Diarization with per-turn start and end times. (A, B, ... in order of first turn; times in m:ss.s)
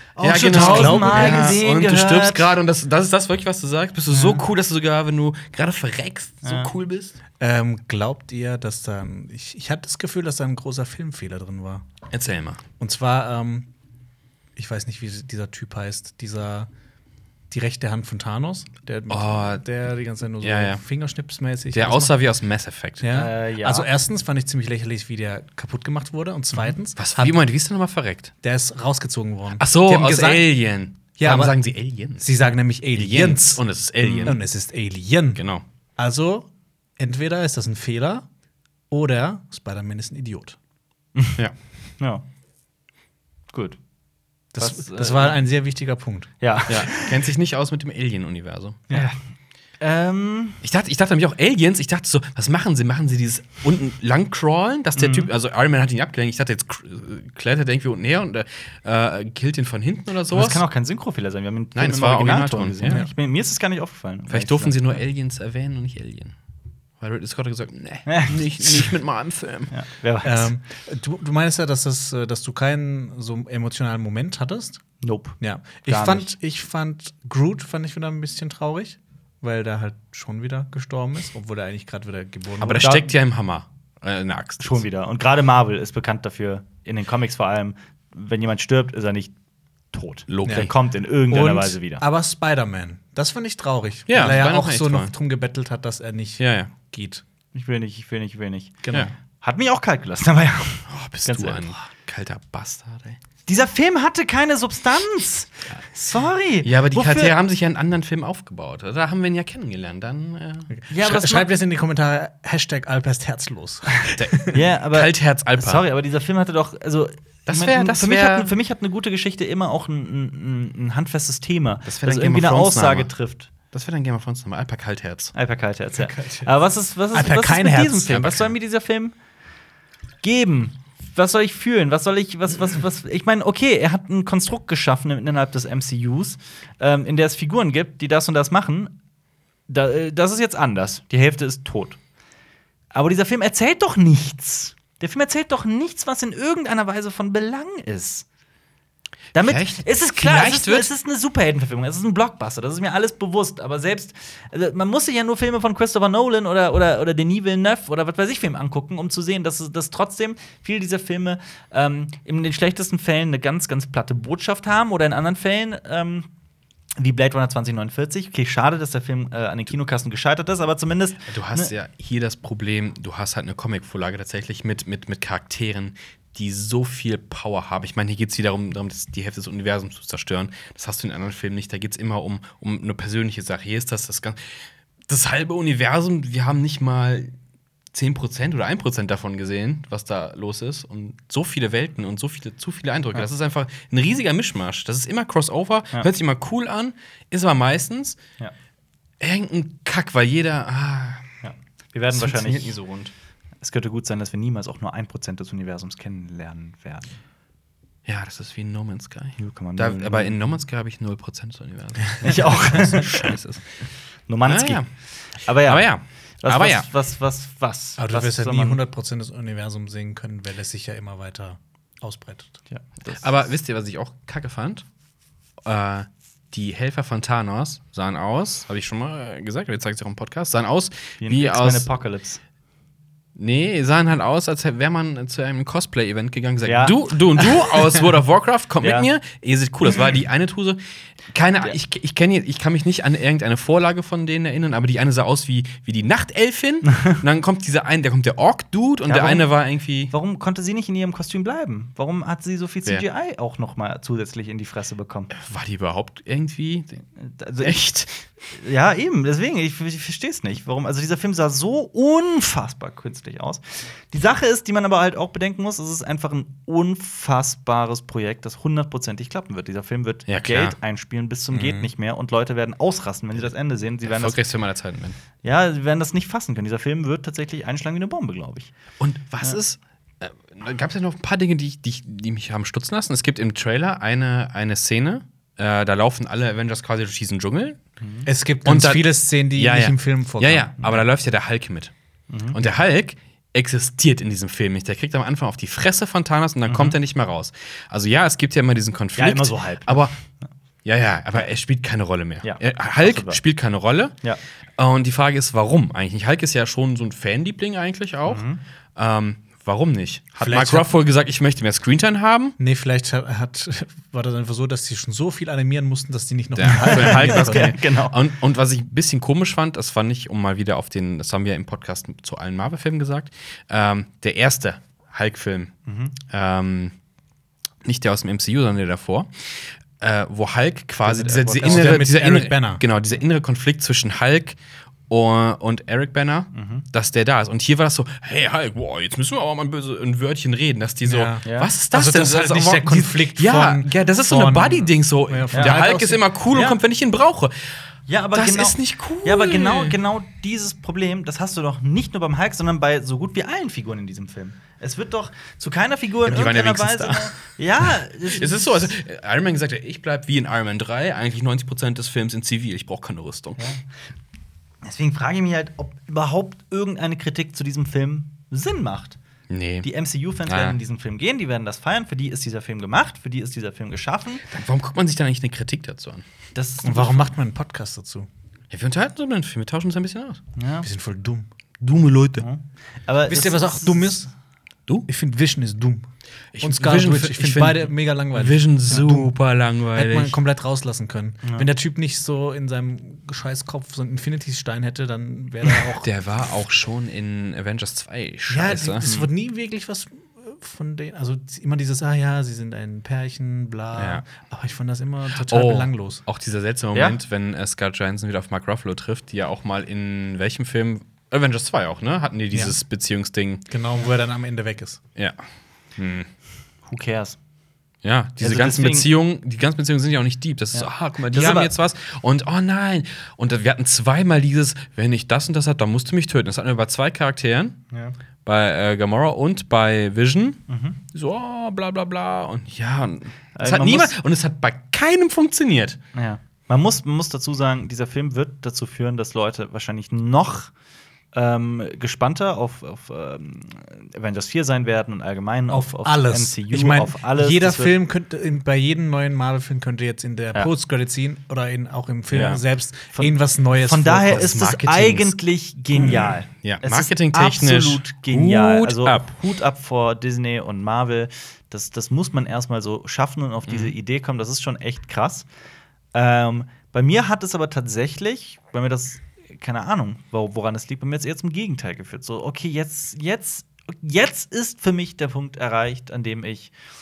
0:00.2-0:02.5 A
0:00.2-0:07.2 B
0:00.3-0:01.6 C
0:04.1-0:04.4 A
0:06.4-0:06.7 A
0:07.4-0:11.8 C
0:12.1-0:12.6 B
0:12.8-0:13.7 C
0:14.6-0:16.7 C
0:17.5-0:22.1 C
0:19.1-0:19.6 B
0:20.4-0:20.8 B
0:21.7-0:23.0 B
0:23.0-0:27.4 C
0:23.1-0:23.9 A
0:27.0-0:28.3 B
0:28.4-0:30.5 C
0:29.6-0:32.2 B
0:31.2-0:31.6 C
0:32.1-0:33.6 C
0:32.9-0:34.4 B
0:34.0-0:34.4 A
0:34.2-0:35.4 C
0:35.3-0:35.6 B
0:36.0-0:36.5 C
0:37.0-0:38.2 C
0:38.9-0:40.6 C
0:42.0-0:42.2 A
0:43.5-0:43.8 A
0:44.5-0:46.4 C
0:44.6-0:45.4 A
0:46.4-0:47.2 A
0:46.7-0:48.8 B
0:48.9-0:49.2 A
0:49.8-0:50.6 A
0:50.6-1:00.6 B
0:55.0-0:55.3 A
1:00.3-1:05.0 A
1:01.7-1:03.0 B
1:04.3-1:06.3 B
1:07.0-1:09.7 B
1:08.1-1:08.9 A
1:09.7-1:10.5 A
1:10.2-1:14.8 C
1:15.0-1:16.3 A
1:15.4-1:23.0 C
1:22.6-1:24.8 B
1:22.8-1:23.0 A
1:24.6-1:29.3 A
1:29.9-1:32.0 A
1:30.3-1:30.7 B
1:30.4-1:30.7 C
1:31.3-1:37.2 C
1:34.1-1:35.1 B
1:36.4-1:36.7 B
1:37.5-1:38.8 A
1:38.8-1:39.1 C
1:39.4-1:41.8 A
1:40.9-1:43.2 B
1:43.5-1:47.3 A
1:46.6-1:50.7 B
1:50.7-1:54.6 C
1:50.9-1:51.5 A
1:54.2-1:55.8 B
1:54.5-2:03.5 A
1:57.5-1:58.5 B
2:01.8-2:03.1 B
2:03.7-2:05.3 B
2:05.3-2:09.2 A
2:06.0-2:06.5 C
2:07.1-2:08.4 C
2:08.1-2:08.4 B
2:10.2-2:19.0 A
2:19.7-2:22.0 A
2:22.9-2:28.2 A
2:29.3-2:46.3 A
2:29.4-2:30.9 B
2:47.0-2:51.7 A
2:51.2-3:07.3 B
3:07.9-3:18.2 B
3:19.2-3:21.3 B
3:21.4-3:27.2 A
3:22.1-3:22.8 B
3:28.0-3:33.6 B
3:29.4-3:30.4 A
3:32.2-3:33.4 A
3:34.3-3:35.9 A
3:34.4-3:34.9 B
3:35.6-3:36.9 B
3:36.4-3:38.8 A
3:38.0-3:42.6 C
3:42.7-3:43.3 A
3:43.1-3:44.8 B
3:45.6-3:51.9 B
3:51.2-3:52.4 A
3:53.4-4:10.1 B
3:56.6-3:57.7 A
3:58.8-3:59.1 A
4:06.9-4:07.2 A
4:09.1-4:09.5 A
4:10.1-4:15.3 A
4:15.3-4:17.0 B
4:17.2-4:17.8 A
4:17.6-4:18.2 B
4:18.5-4:34.4 A
4:30.3-4:30.8 B
4:31.5-4:31.9 C
4:34.0-4:35.2 B
4:35.4-4:38.7 A
4:39.0-4:47.8 B
4:48.0-4:48.3 A
4:48.2-4:50.8 C
4:48.6-4:51.9 B
4:52.3-4:52.6 A
4:52.5-5:00.1 B
4:56.7-4:57.0 A
4:59.2-5:00.1 A
5:00.8-5:04.2 B
5:02.4-5:03.4 A
5:04.8-5:08.4 B
5:08.2-5:08.6 A
5:09.0-5:12.6 B
5:10.4-5:10.9 C
5:12.6-5:17.7 C
5:16.6-5:26.9 B
5:16.7-5:18.2 A
5:25.8-5:26.2 A
5:27.8-5:34.6 B
5:31.0-5:32.0 A
5:31.6-5:32.8 C
5:35.1-5:47.5 B
5:36.5-5:36.8 A
5:41.0-5:46.2 C
5:41.4-5:41.7 A
5:45.5-5:45.8 A
5:46.5-5:46.8 A
5:48.1-5:58.9 A
5:48.3-5:50.0 B
5:56.2-5:57.3 B
5:57.8-6:03.6 B
6:03.6-6:03.8 A
6:04.8-6:09.2 A
6:09.5-6:09.9 B
6:09.8-6:14.4 A
6:10.4-6:10.8 B
6:14.5-6:16.2 B
6:16.5-6:17.3 A
6:16.8-6:18.3 C
6:18.7-6:20.4 B
6:20.6-6:20.9 A
6:20.8-6:21.5 C
6:21.8-6:22.5 B
6:22.4-6:24.2 A
6:23.3-6:24.3 C
6:25.1-6:26.0 C
6:26.5-6:30.4 B
6:26.6-6:29.3 C
6:29.9-6:36.1 C
6:31.4-6:31.7 A
6:36.0-6:39.1 B
6:38.5-6:46.2 C
6:39.0-6:39.3 A
6:44.0-6:44.2 B
6:45.4-6:53.6 B
6:53.7-6:55.0 C
6:56.0-6:56.3 B
6:56.8-6:57.4 A
6:58.0-7:07.8 B
6:58.4-6:59.1 A
7:00.7-7:01.7 A
7:08.4-7:16.0 B
7:10.7-7:11.0 A
7:13.6-7:14.1 A
7:16.1-7:20.7 A
7:21.3-7:27.9 A
7:25.7-7:34.5 C
7:32.3-7:32.6 B
7:33.1-7:45.5 A
7:34.3-7:35.4 B
7:36.0-7:39.3 B
7:36.0-7:36.3 C
7:43.7-7:43.9 B
7:46.1-7:56.7 A